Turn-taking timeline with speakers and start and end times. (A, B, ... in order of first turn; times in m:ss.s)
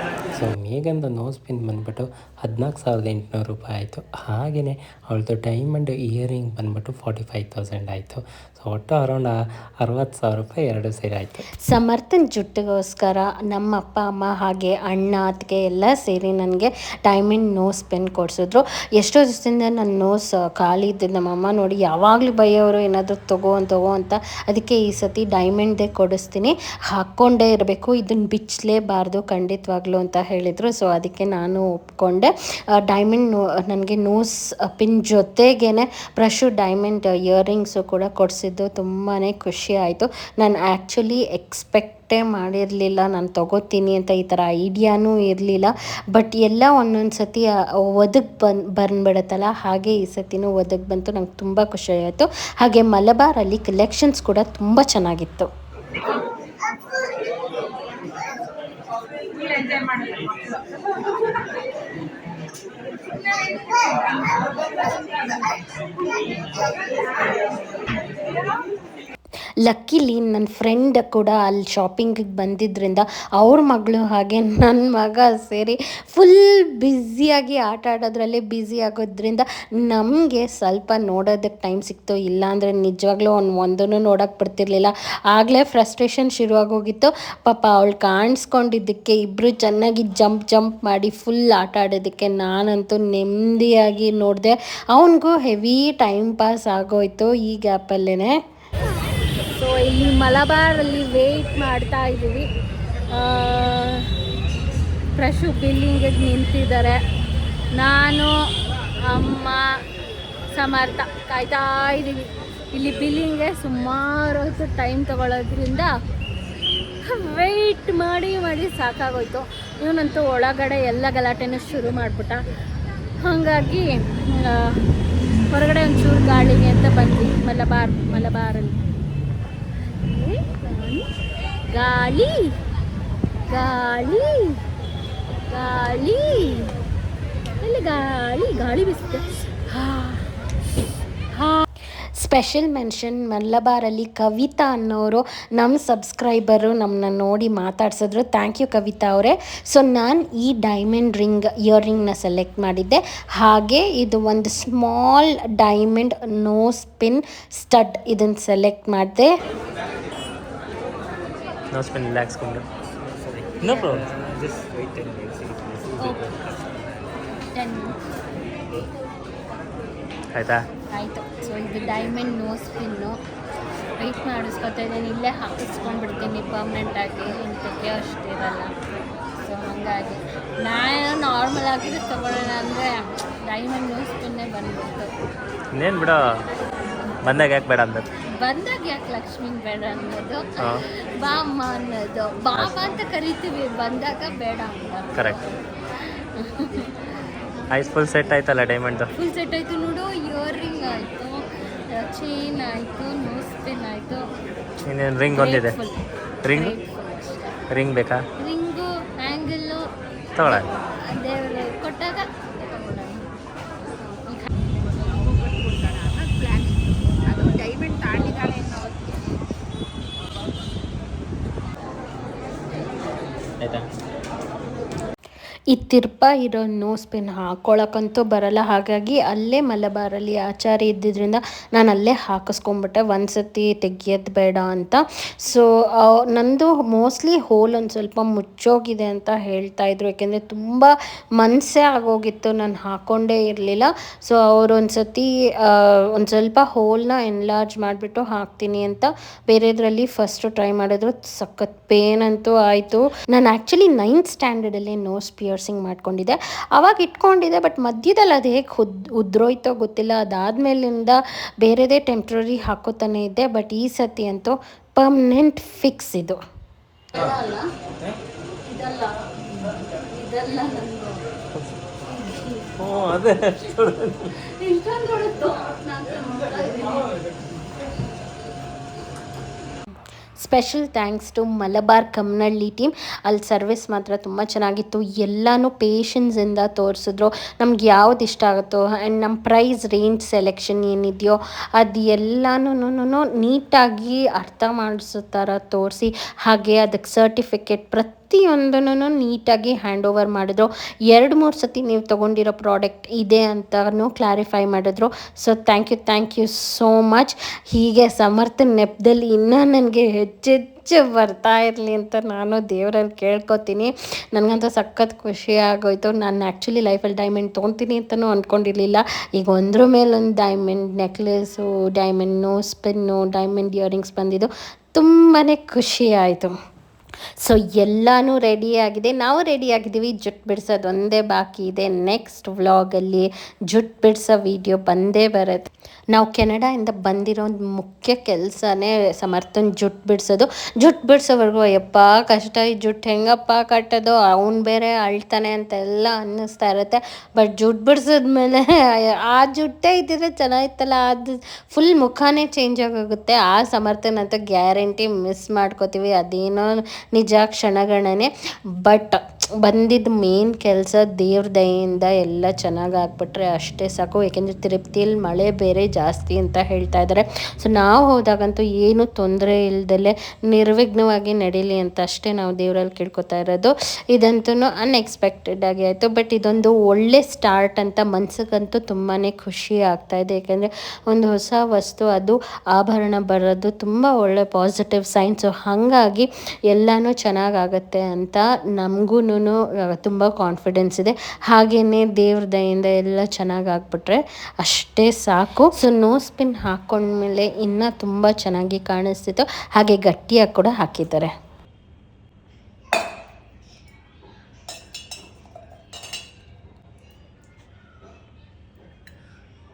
0:00.3-0:11.5 A
0:11.7-0:32.3 B
0:32.9-0:55.5 B
1:09.6-1:38.4 B
1:39.6-1:42.5 C
1:43.1-1:44.1 C
1:45.2-1:47.0 C
1:47.8-1:48.3 C
1:49.1-1:49.7 C
1:50.5-1:55.9 C
1:57.1-2:02.4 C
2:03.2-2:04.8 C
2:05.5-2:08.8 C
2:10.0-2:11.1 C
2:11.7-2:12.6 C
2:13.5-2:14.6 C
2:15.5-2:16.7 C
2:17.6-2:20.2 C
2:21.3-2:21.6 C
2:22.2-2:39.3 B
2:41.7-2:42.6 D
2:43.2-2:46.8 D
2:46.0-2:46.3 C
2:47.3-2:48.0 C
2:50.3-2:50.6 D
2:50.9-2:53.2 C
2:54.0-2:58.7 C
2:59.4-3:05.2 C
3:05.8-3:06.2 D
3:07.2-3:08.1 D
3:08.4-3:10.7 C
3:11.2-3:15.4 C
3:12.6-3:12.9 D
3:16.4-3:17.1 C
3:17.7-3:19.1 D
3:19.2-3:24.2 C
3:24.8-3:25.8 D
3:25.3-3:27.6 C
3:26.4-3:26.7 D
3:27.7-3:28.2 D
3:28.4-3:29.9 C
3:30.4-3:30.7 D
3:30.4-3:33.2 C
3:34.2-3:34.5 C
3:35.1-3:39.3 E
3:45.7-4:26.3 B
4:27.1-4:27.7 C
4:28.7-4:31.2 C
4:32.1-4:32.9 C
4:32.8-4:34.3 D
4:34.5-4:37.1 C
4:40.4-5:26.5 B
5:27.4-5:58.3 B
5:58.8-6:41.3 B